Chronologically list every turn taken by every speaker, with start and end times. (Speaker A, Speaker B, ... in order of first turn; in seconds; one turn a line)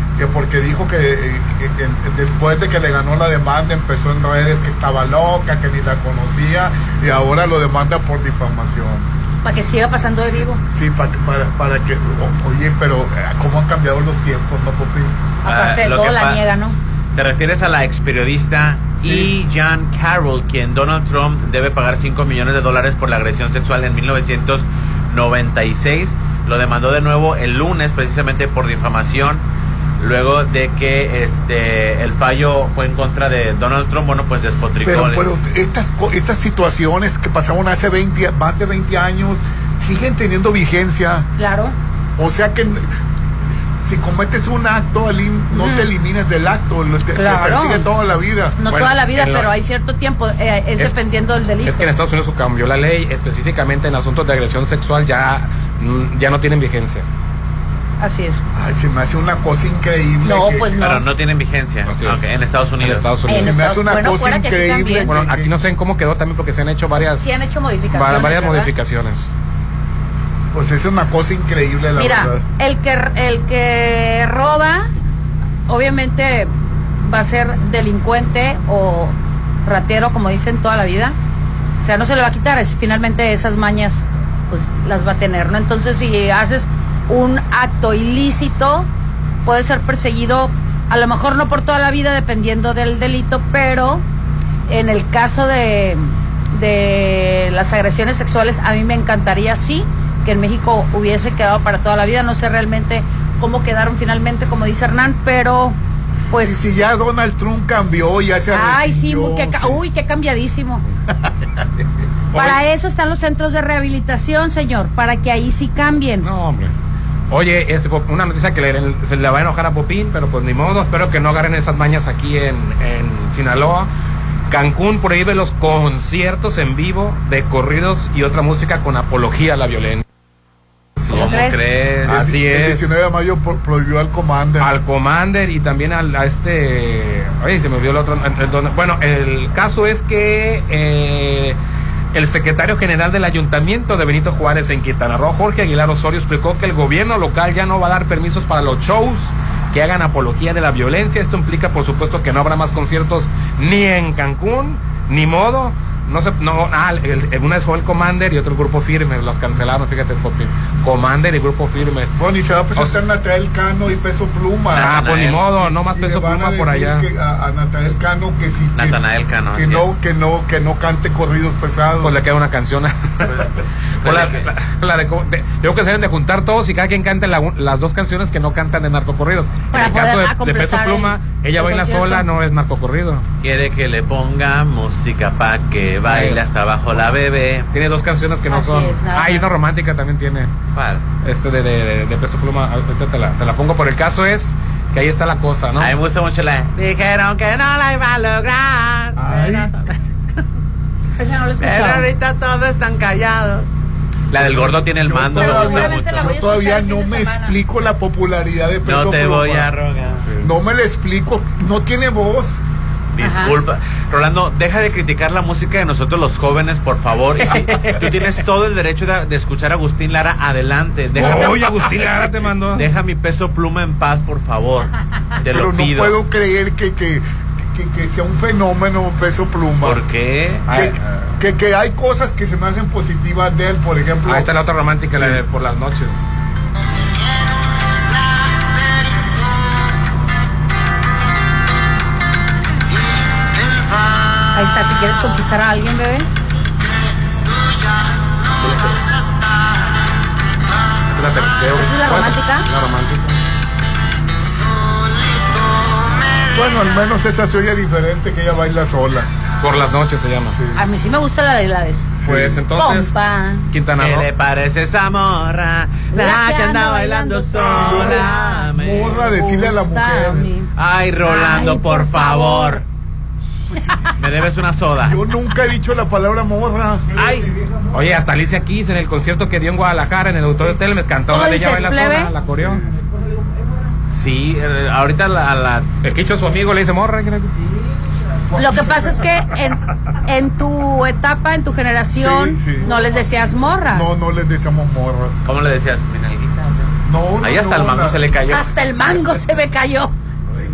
Speaker A: 0.2-9.1
Speaker B: 9.4-10.6
Speaker A: 10.4-15.2
Speaker B: 15.4-16.8
Speaker C: 15.4-16.4
Speaker C: 17.1-29.4
Speaker A: 19.0-19.3
Speaker C: 30.0-35.2
Speaker A: 34.8-41.3
Speaker B: 41.4-41.8
Speaker A: 42.2-42.9
Speaker A: 43.5-48.6
Speaker B: 45.5-45.9
Speaker B: 47.1-47.9
Speaker B: 48.6-51.9
Speaker D: 48.7-49.5
Speaker D: 51.6-57.0
Speaker B: 58.0-58.4
Speaker A: 58.5-61.0
Speaker B: 60.2-61.0
Speaker C: 60.8-63.1
Speaker D: 61.9-62.2
Speaker D: 62.8-63.7
Speaker B: 63.3-65.1
Speaker A: 63.3-65.5
Speaker D: 65.0-67.3
Speaker B: 67.1-68.7
Speaker D: 67.9-69.3
Speaker A: 70.5-72.4
Speaker B: 72.0-74.8
Speaker B: 75.7-76.5
Speaker B: 77.1-81.2
Speaker B: 81.8-88.9
Speaker B: 89.5-94.0
Speaker B: 94.7-105.8
Speaker B: 106.3-106.6
Speaker A: 106.4-109.8
Speaker B: 108.5-110.8
Speaker D: 112.3-112.6
Speaker B: 112.3-116.3
Speaker D: 116.2-116.7
Speaker D: 117.3-123.9
Speaker D: 124.5-130.0
Speaker D: 131.0-131.4
Speaker C: 131.1-132.3
Speaker B: 131.2-131.6
Speaker A: 132.1-134.7
Speaker D: 132.1-132.9
Speaker D: 134.6-141.6
Speaker D: 142.1-162.1
Speaker A: 162.2-169.0
Speaker C: 164.7-165.5
Speaker D: 164.7-167.1
Speaker C: 168.8-169.9
Speaker A: 169.5-172.2
Speaker D: 172.0-173.5
Speaker C: 174.0-174.5
Speaker D: 174.0-183.2
Speaker B: 179.7-182.3
Speaker C: 183.4-187.7
Speaker D: 186.1-186.4
Speaker D: 187.7-190.5
Speaker B: 188.5-189.5
Speaker C: 190.8-191.0
Speaker D: 191.2-195.9
Speaker C: 195.8-199.9
Speaker A: 199.2-199.7
Speaker B: 201.2-202.1
Speaker C: 201.6-203.7
Speaker C: 204.3-206.3
Speaker A: 204.3-209.7
Speaker B: 205.4-207.6
Speaker C: 208.8-210.3
Speaker A: 210.4-212.6
Speaker C: 213.2-222.0
Speaker B: 213.2-213.5
Speaker D: 221.2-222.9
Speaker C: 222.7-226.2
Speaker A: 225.5-230.0
Speaker C: 229.8-230.7
Speaker D: 230.7-231.1
Speaker A: 230.7-234.5
Speaker D: 234.3-236.2
Speaker A: 235.1-235.4
Speaker B: 244.5-246.3
Speaker D: 248.6-249.1
Speaker D: 251.1-253.4
Speaker B: 251.8-252.7
Speaker A: 256.5-259.3
Speaker D: 259.6-260.6
Speaker A: 260.5-260.8
Speaker B: 260.8-262.1
Speaker A: 262.2-262.6
Speaker D: 262.2-263.1
Speaker B: 262.8-263.7
Speaker D: 263.7-264.3
Speaker C: 264.0-269.3
Speaker B: 266.1-268.7
Speaker A: 267.7-270.5
Speaker B: 269.3-270.7
Speaker C: 270.8-272.8
Speaker B: 271.2-272.8
Speaker A: 273.7-274.1
Speaker C: 274.2-275.2
Speaker A: 275.0-277.1
Speaker C: 277.2-277.5
Speaker D: 277.9-282.8
Speaker B: 281.3-282.3
Speaker A: 282.6-282.9
Speaker C: 284.1-285.9
Speaker D: 286.0-287.7
Speaker A: 288.5-289.2
Speaker B: 288.6-294.1
Speaker A: 292.1-292.9
Speaker A: 293.9-295.4
Speaker C: 295.5-296.9
Speaker A: 297.1-298.2
Speaker C: 297.4-298.7
Speaker B: 298.5-300.1